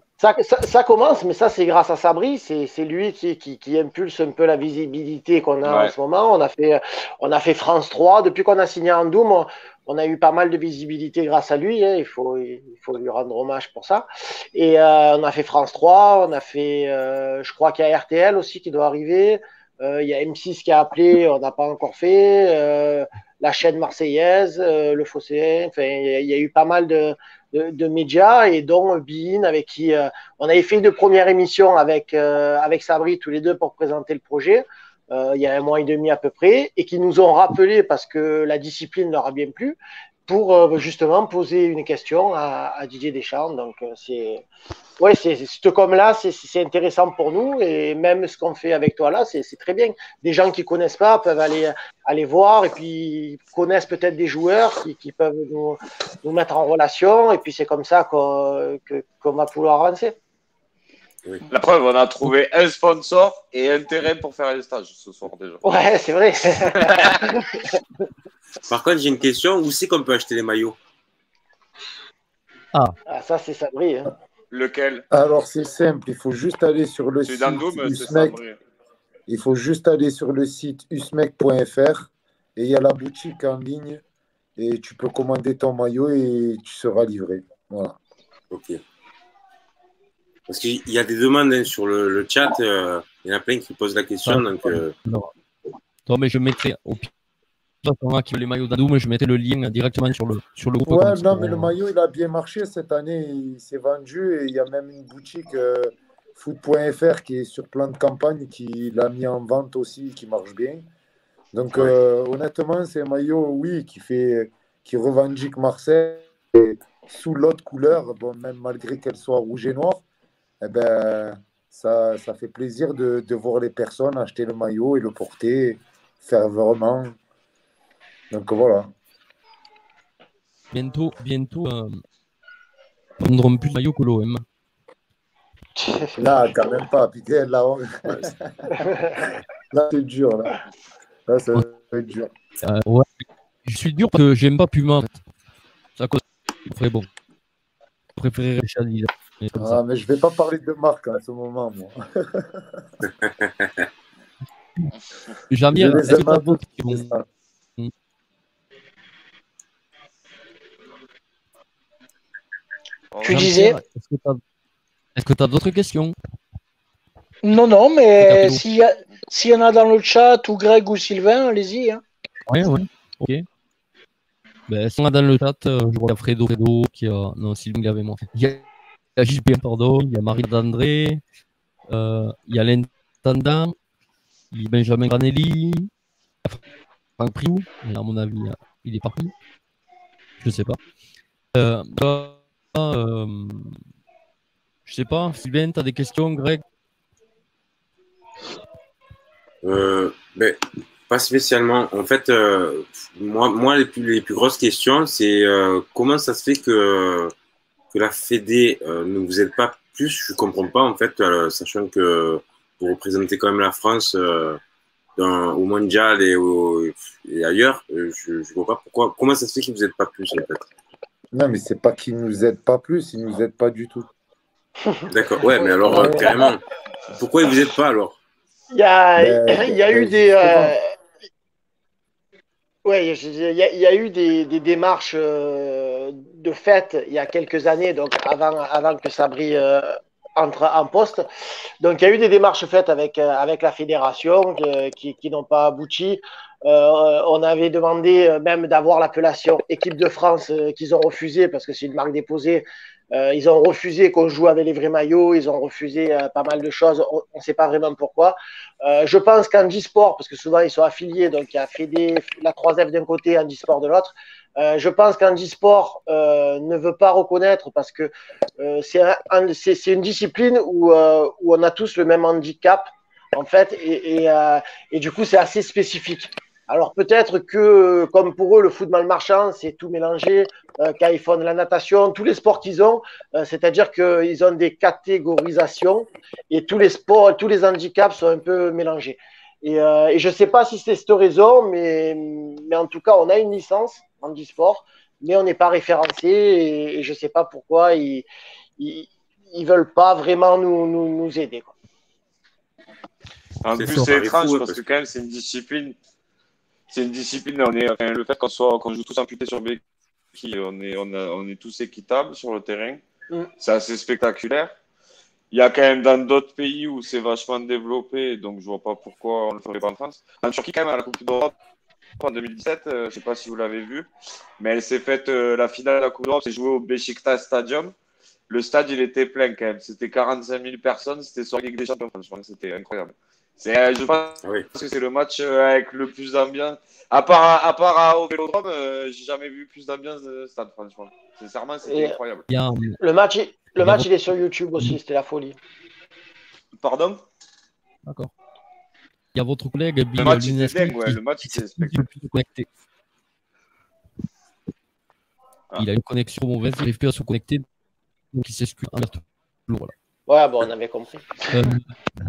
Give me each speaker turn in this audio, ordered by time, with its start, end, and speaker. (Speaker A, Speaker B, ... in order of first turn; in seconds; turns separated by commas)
Speaker A: 0.2-44.5, Speaker B: 5.6-5.9, Speaker A: 45.0-60.1, Speaker B: 61.5-65.6, Speaker A: 65.6-67.8, Speaker B: 66.6-67.1, Speaker C: 68.7-70.8, Speaker A: 73.1-74.1, Speaker B: 74.5-75.0, Speaker D: 75.1-78.4, Speaker B: 77.2-78.6, Speaker D: 79.3-84.0, Speaker D: 84.6-88.0, Speaker C: 88.5-88.8, Speaker C: 90.5-94.9, Speaker E: 94.2-95.3, Speaker E: 96.1-97.1, Speaker E: 97.8-101.7, Speaker D: 100.9-110.8, Speaker D: 111.5-120.0, Speaker D: 120.6-127.2, Speaker D: 128.3-128.9, Speaker E: 130.7-132.0, Speaker E: 133.2-134.4, Speaker A: 135.8-136.5, Speaker D: 136.2-138.5, Speaker A: 138.8-139.2, Speaker D: 139.7-140.5, Speaker D: 141.3-142.3, Speaker E: 142.6-143.1, Speaker E: 143.7-145.2, Speaker E: 146.0-147.1, Speaker E: 148.2-149.8, Speaker D: 149.6-152.8, Speaker C: 153.4-153.9, Speaker E: 155.5-157.1, Speaker D: 155.8-157.2, Speaker B: 163.1-163.5, Speaker F: 163.2-163.8, Speaker E: 163.3-164.4, Speaker E: 165.2-166.2, Speaker F: 167.4-172.0, Speaker E: 168.2-168.6, Speaker E: 172.5-173.4, Speaker E: 174.7-178.6, Speaker E: 179.2-181.2, Speaker E: 181.9-183.8, Speaker E: 184.5-185.9, Speaker E: 187.2-189.3, Speaker E: 190.4-190.8, Speaker E: 191.5-193.8, Speaker E: 194.9-196.6, Speaker C: 199.6-200.6, Speaker C: 201.1-207.3, Speaker C: 207.9-214.6, Speaker C: 215.2-220.7, Speaker D: 221.3-224.1, Speaker A: 224.8-226.5, Speaker C: 225.1-228.2, Speaker D: 225.9-226.5, Speaker A: 228.7-230.8, Speaker D: 229.2-230.8, Speaker A: 232.8-241.2, Speaker A: 241.8-298.3, Speaker A: 298.8-301.7, Speaker B: 303.6-306.0, Speaker C: 303.8-304.8, Speaker B: 306.9-309.8, Speaker B: 310.3-313.0, Speaker B: 313.6-314.8, Speaker B: 315.5-321.5, Speaker B: 322.2-324.1, Speaker B: 324.6-327.9, Speaker B: 328.5-342.4, Speaker A: 341.9-342.2, Speaker E: 342.5-343.0, Speaker A: 343.0-345.6, Speaker E: 343.8-344.1, Speaker B: 346.8-347.2, Speaker E: 348.1-348.3, Speaker E: 349.3-352.7, Speaker B: 350.2-352.1, Speaker E: 355.8-357.6, Speaker E: 358.3-359.9, Speaker A: 360.3-361.5, Speaker E: 361.5-361.8